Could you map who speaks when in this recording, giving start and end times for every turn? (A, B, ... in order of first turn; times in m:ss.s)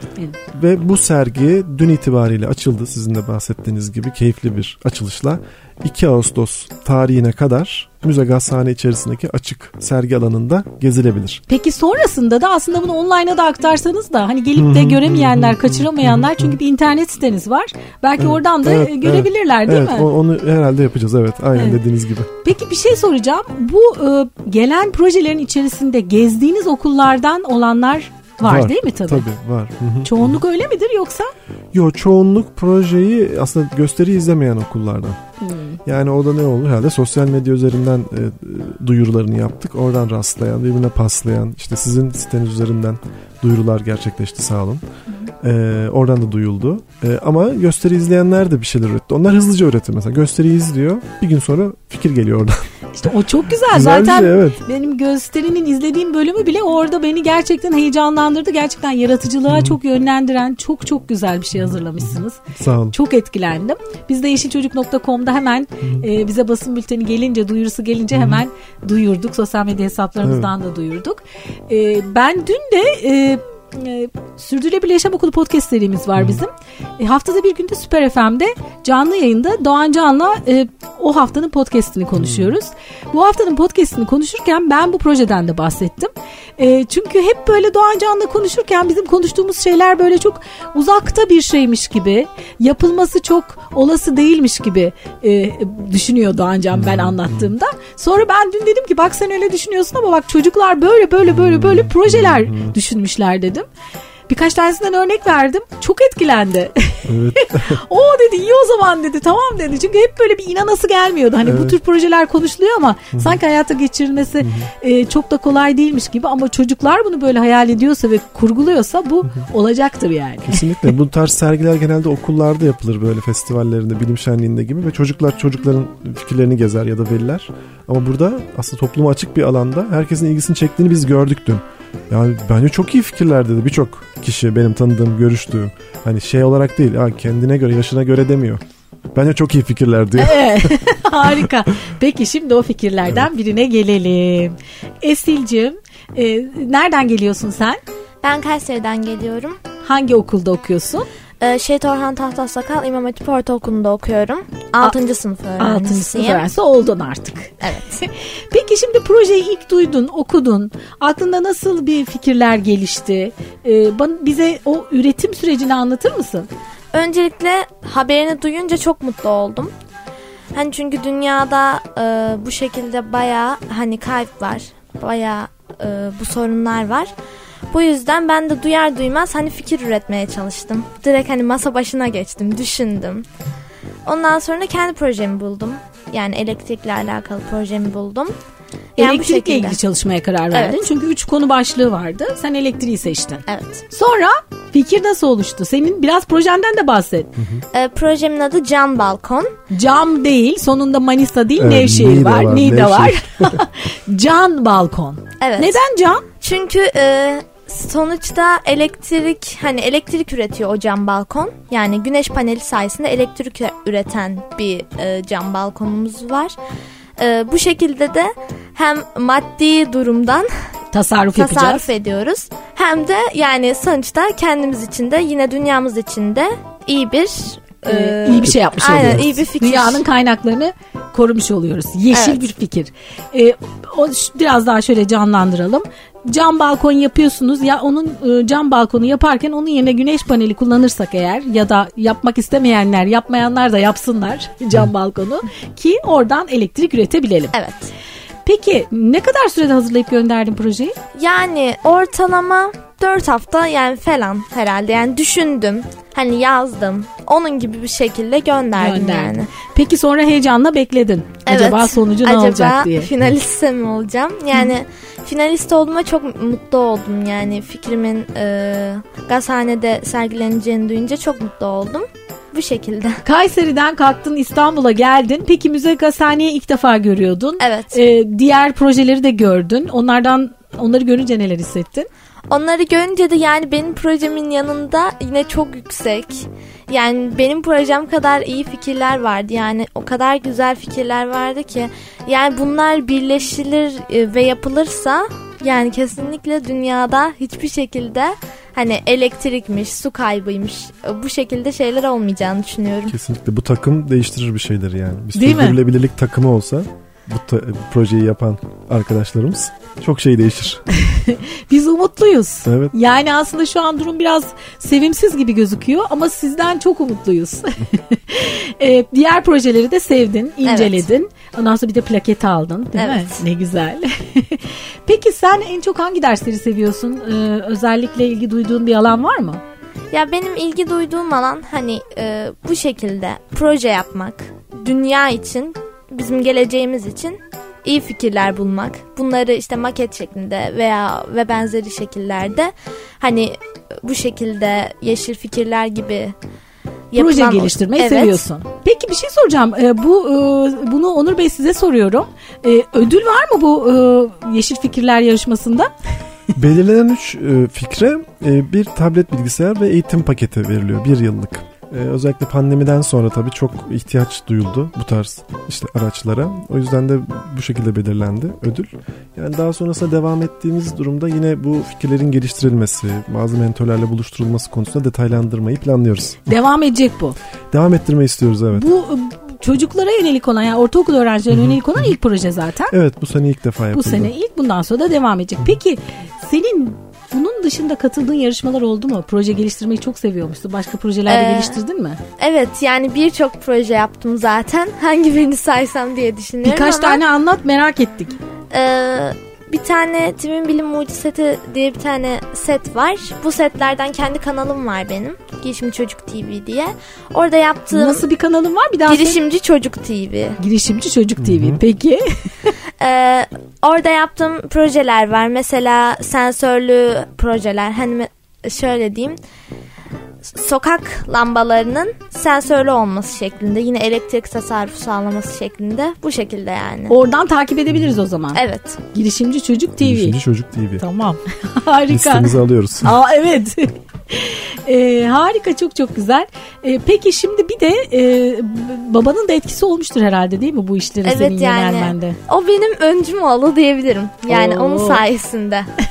0:00.5-0:11.4 A
0:11.5-0:20.1 B
0:14.6-0:16.6 A
0:18.2-0:22.3 A
0:22.4-0:29.2 B
0:28.4-0:30.4 A
0:30.0-0:31.3 B
0:31.7-0:35.2 A
0:35.4-0:35.8 B
0:35.8-0:44.8 A
0:45.4-0:52.7 A
0:52.9-1:02.4 B
0:53.6-0:54.6 A
0:59.5-0:59.8 A
1:02.0-1:02.9 A
1:02.9-1:43.7 B
1:05.8-1:06.1 A
1:08.1-1:08.4 A
1:10.2-1:10.5 A
1:16.2-1:16.4 A
1:22.2-1:22.5 A
1:36.7-1:37.5 A
1:41.3-1:42.8 A
1:44.3-2:00.8 B
1:47.0-1:47.8 A
1:51.4-1:51.8 A
1:53.1-1:53.4 A
1:54.4-1:54.7 A
2:00.4-2:18.6 A
2:19.1-2:21.5 A
2:20.2-2:27.8 B
2:28.2-2:29.6 C
2:29.8-2:31.1 B
2:31.4-2:36.4 C
2:35.6-2:46.5 B
2:37.6-2:38.0 C
2:46.9-2:49.7 C
2:50.5-2:57.1 C
2:57.7-3:03.2 C
3:04.0-3:08.3 C
3:09.0-3:09.8 C
3:09.0-3:17.3 B
3:10.5-3:10.9 C
3:13.5-3:13.8 C
3:17.4-3:17.6 A
3:17.7-3:19.5 C
3:19.7-3:26.2 B
3:21.6-3:23.6 A
3:25.4-3:25.8 C
3:26.4-3:36.6 C
3:37.2-3:40.5 C
3:40.9-3:41.8 B
3:41.3-3:50.0 C
3:47.8-4:07.5 B
3:48.4-3:49.2 A
3:52.1-3:52.5 C
4:07.5-4:07.9 C
4:08.4-4:11.0 B
4:11.1-4:19.5 C
4:18.8-4:23.1 B
4:21.4-4:33.2 C
4:33.2-4:42.1 B
4:37.6-4:38.0 C
4:42.5-5:03.1 C
5:03.1-5:10.8 A
5:05.3-5:05.8 B
5:11.0-5:29.6 B
5:12.6-5:12.9 A
5:20.6-5:21.0 C
5:23.0-5:23.4 C
5:30.1-5:46.3 C
5:47.1-5:48.4 C
5:47.1-5:55.9 B
5:56.5-6:16.6 A
6:16.5-6:17.4 B
6:17.7-6:18.9 A
6:18.7-6:22.9 B
6:21.5-6:22.0 A
6:22.9-6:24.3 A
6:23.9-6:32.2 B
6:31.3-6:31.8 C
6:32.4-6:37.2 C
6:36.6-6:38.4 B
6:38.7-6:48.2 C
6:47.9-6:49.4 B
6:49.1-6:50.6 C
6:50.6-6:52.7 B
6:51.4-6:51.8 A
6:53.0-6:59.4 C
7:00.5-7:07.1 C
7:07.1-7:08.6 B
7:08.5-7:09.0 C
7:09.1-7:10.4 B
7:10.0-7:11.0 A
7:11.0-7:22.4 B
7:12.1-7:13.2 A
7:21.2-7:25.9 C
7:24.5-7:25.2 B